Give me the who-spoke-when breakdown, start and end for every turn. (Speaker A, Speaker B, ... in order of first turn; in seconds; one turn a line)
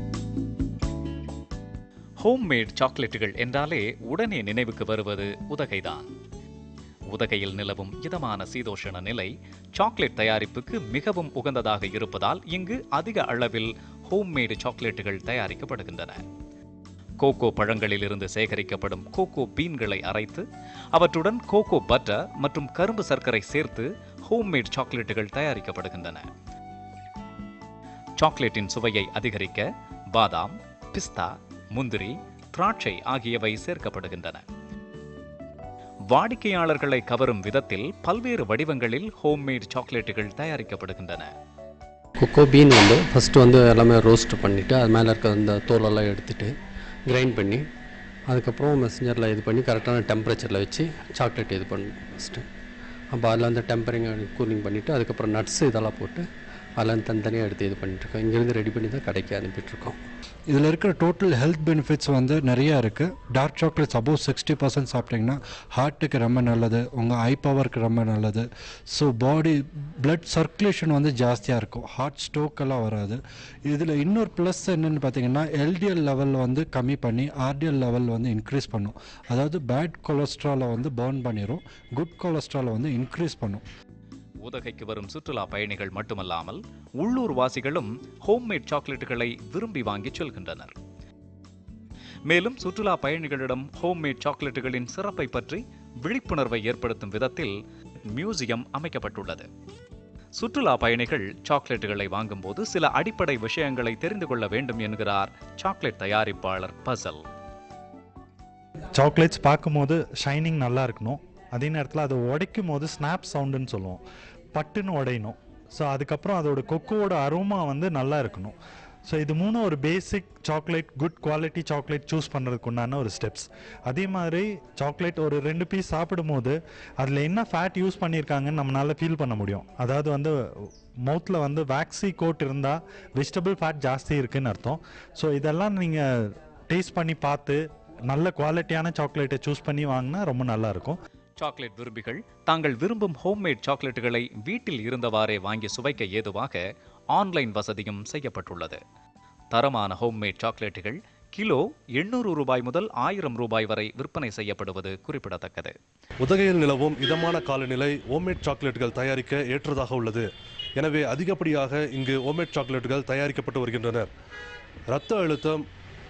Speaker A: 2.2-6.1
Speaker A: 7.1-16.2
Speaker A: 17.2-26.2
Speaker A: 28.2-34.4
Speaker A: 36.1-41.3
Speaker B: 42.2-46.5
Speaker B: 47.1-47.6
Speaker B: 48.3-52.4
Speaker B: 53.2-56.2
Speaker B: 56.8-59.9
Speaker C: 60.5-83.6
Speaker A: 84.4-90.7
Speaker A: 92.3-97.5
Speaker A: 98.1-99.5
Speaker A: 100.3-107.2
Speaker D: 108.9-114.0
Speaker D: 114.5-141.0
Speaker A: 141.4-148.8
Speaker A: 149.5-155.8
Speaker E: 156.2-164.1
Speaker E: 164.9-165.6